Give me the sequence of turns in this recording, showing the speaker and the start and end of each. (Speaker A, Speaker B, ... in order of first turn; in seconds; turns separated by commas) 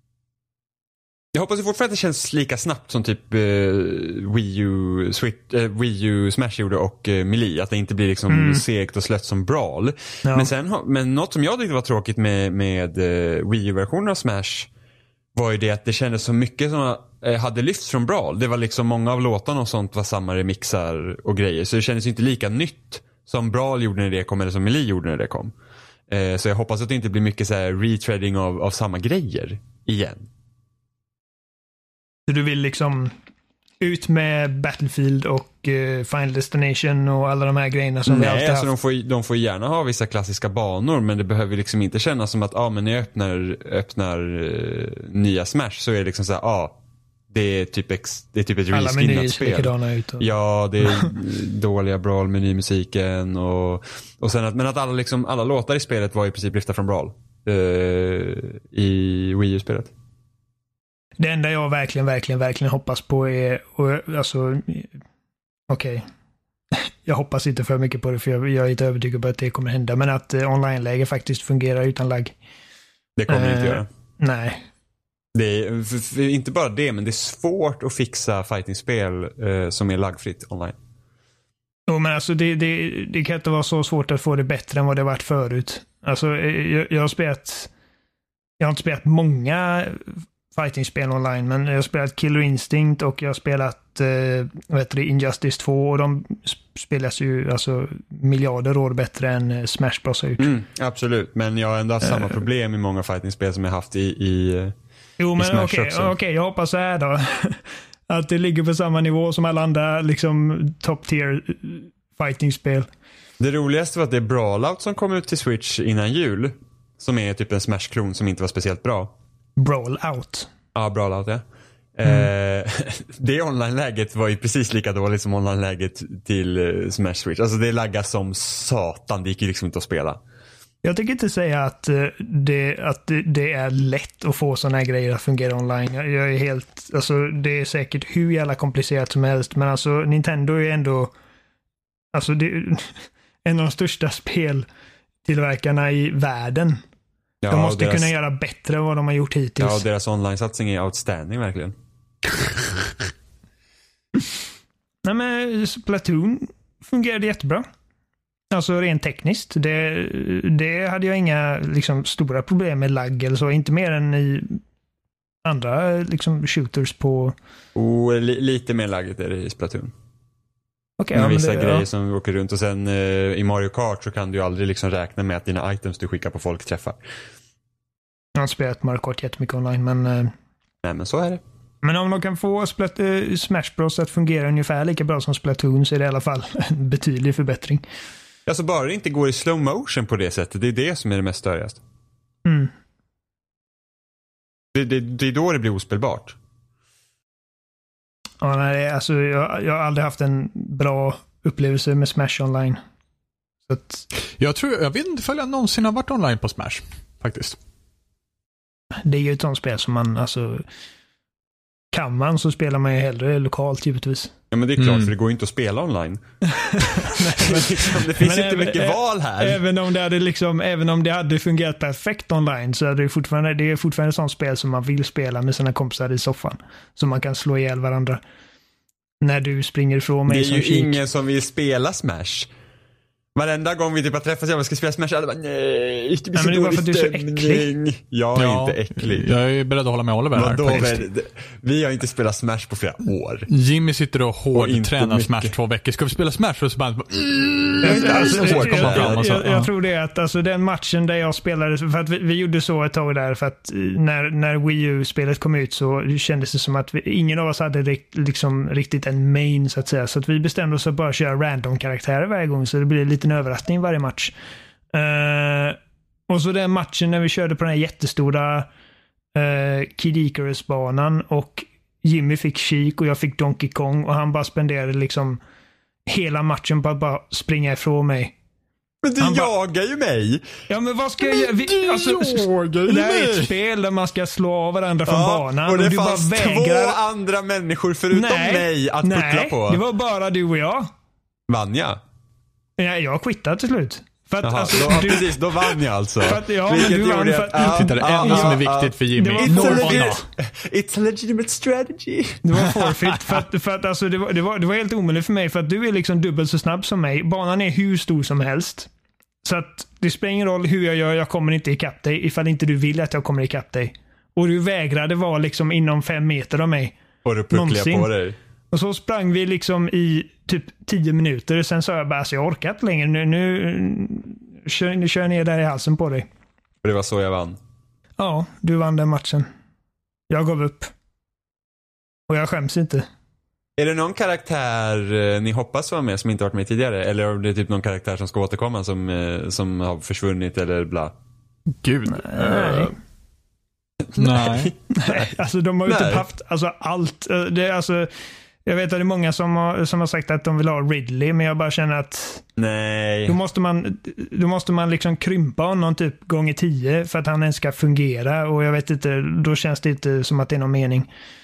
Speaker A: 1.3-14.7, Speaker B: 8.3-8.6, Speaker B: 10.2-10.5, Speaker A: 15.3-25.5, Speaker A: 26.1-30.3, Speaker B: 32.3-33.1, Speaker B: 33.8-38.7, Speaker A: 38.1-46.8, Speaker A: 47.3-59.9, Speaker B: 48.7-50.3, Speaker B: 50.8-51.1, Speaker B: 61.2-65.0, Speaker B: 65.7-66.0, Speaker B: 66.7-72.3, Speaker A: 73.2-73.9, Speaker B: 73.3-74.6, Speaker A: 75.3-80.8, Speaker B: 81.9-87.7, Speaker B: 88.6-100.5, Speaker A: 100.4-104.8, Speaker B: 105.2-112.9, Speaker A: 105.4-106.1, Speaker A: 113.4-119.1, Speaker B: 119.6-120.5, Speaker A: 120.7-121.4, Speaker A: 121.9-130.2, Speaker B: 130.8-141.1, Speaker B: 142.1-144.7, Speaker B: 145.2-146.8, Speaker A: 147.4-148.1, Speaker B: 147.5-149.8, Speaker A: 149.6-151.7, Speaker B: 155.0-157.6, Speaker B: 158.5-164.6, Speaker B: 165.4-167.3, Speaker A: 167.7-169.9, Speaker B: 171.0-171.8, Speaker A: 171.1-177.0, Speaker B: 178.4-180.3, Speaker A: 180.8-181.4, Speaker B: 181.8-187.8, Speaker A: 188.4-191.8, Speaker B: 192.4-192.7, Speaker A: 194.7-196.3, Speaker B: 198.4-202.8, Speaker B: 203.7-204.0, Speaker C: 204.4-207.6, Speaker B: 209.0-210.6, Speaker B: 211.9-214.3, Speaker A: 214.5-216.2, Speaker C: 214.8-215.1, Speaker B: 216.5-228.2, Speaker A: 216.8-219.6, Speaker B: 229.2-231.0, Speaker A: 230.3-232.5, Speaker A: 233.3-239.3, Speaker B: 236.3-237.7, Speaker C: 238.3-241.0, Speaker A: 240.3-243.5, Speaker C: 243.5-249.7, Speaker A: 244.5-245.5, Speaker B: 247.8-264.3, Speaker A: 247.8-249.3, Speaker B: 264.9-265.8, Speaker B: 266.3-268.7, Speaker B: 269.3-275.4, Speaker B: 276.1-278.3, Speaker A: 279.0-280.4, Speaker B: 279.2-279.5, Speaker B: 280.7-287.0, Speaker C: 281.2-283.5, Speaker A: 285.1-289.8, Speaker B: 288.1-290.9, Speaker A: 291.5-292.0, Speaker B: 292.8-298.6, Speaker A: 294.4-302.4, Speaker C: 297.6-300.2, Speaker B: 299.1-300.1, Speaker B: 302.4-308.9, Speaker B: 309.4-316.9, Speaker A: 317.2-318.4, Speaker B: 317.5-318.1, Speaker B: 318.7-326.2, Speaker A: 326.8-327.6, Speaker B: 328.2-329.5, Speaker B: 330.3-330.9, Speaker B: 332.3-333.1, Speaker A: 333.8-341.1, Speaker C: 341.8-342.9, Speaker B: 342.1-342.9, Speaker A: 344.0-345.3, Speaker C: 344.2-344.7, Speaker B: 344.9-348.1, Speaker A: 345.8-346.2, Speaker B: 348.6-352.4, Speaker A: 352.6-353.4, Speaker B: 353.3-361.1